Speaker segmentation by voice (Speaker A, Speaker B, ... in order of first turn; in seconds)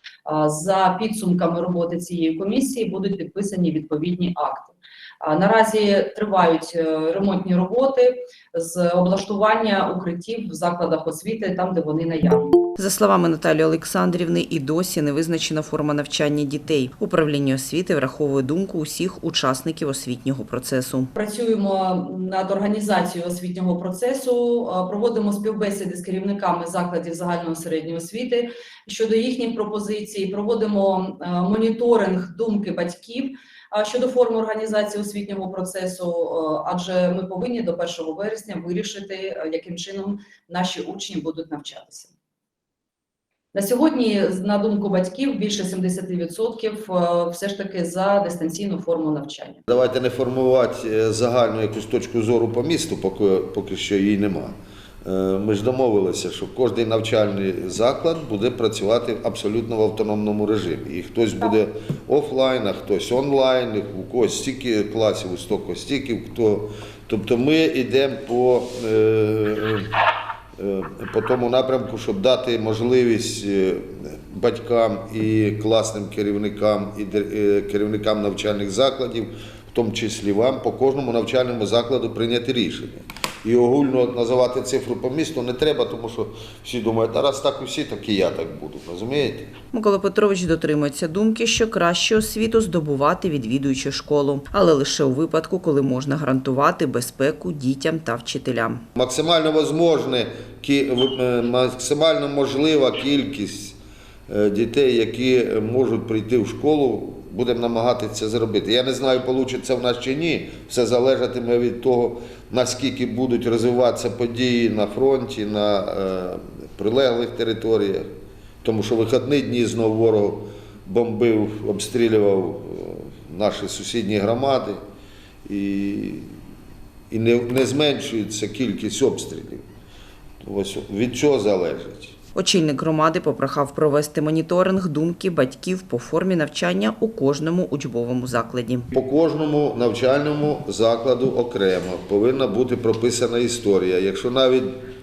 Speaker A: 0.2-12.6, 21.1-42.1, 43.5-49.6
Speaker B: 12.8-21.1, 89.7-98.8, 132.3-138.9
Speaker C: 49.7-69.9, 70.6-89.5, 99.0-103.8, 104.3-118.1, 118.6-124.8, 125.5-126.3, 127.1-129.6, 130.4-132.2, 138.9-144.8